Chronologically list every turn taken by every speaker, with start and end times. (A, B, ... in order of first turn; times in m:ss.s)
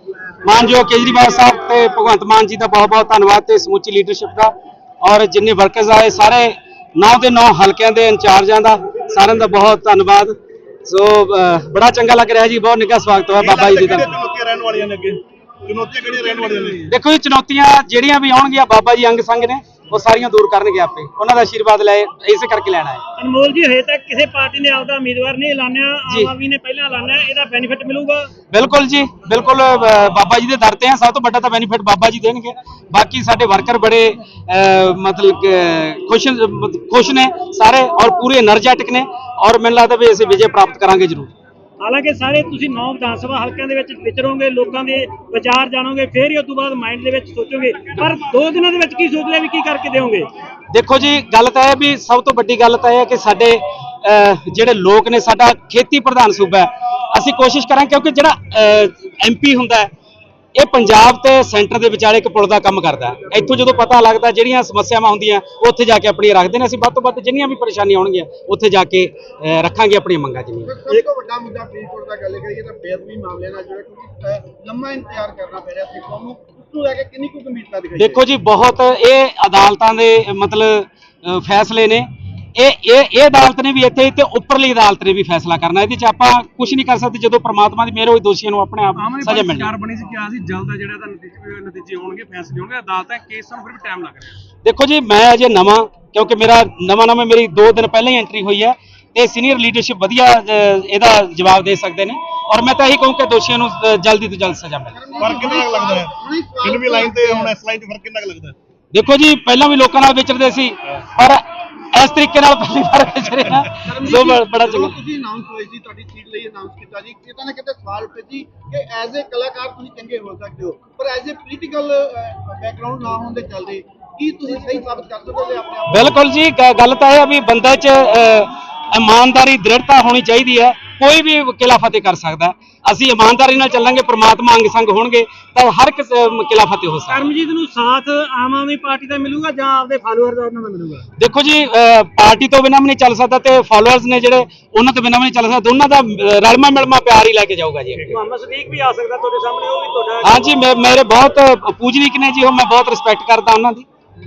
0:00.4-0:10.4 A
0:10.9-0:14.2 A
0:13.4-0:16.9 B
0:16.9-0:23.0 A
0:23.2-0:28.3 C
0:28.5-0:41.3 A
0:41.8-0:50.3 C
0:50.7-0:59.9 A
1:00.6-1:10.8 A
1:10.6-1:18.2 D
1:18.0-1:29.7 A
1:29.0-1:34.4 E
1:34.6-1:45.0 A
1:44.9-1:47.6 D
1:45.2-1:48.6 B
1:48.9-1:55.0 A
1:53.8-2:06.2 D
2:05.9-2:17.3 A
2:17.1-2:21.1 C
2:21.2-2:28.2 A
2:28.0-2:30.5 C
2:30.2-2:33.9 A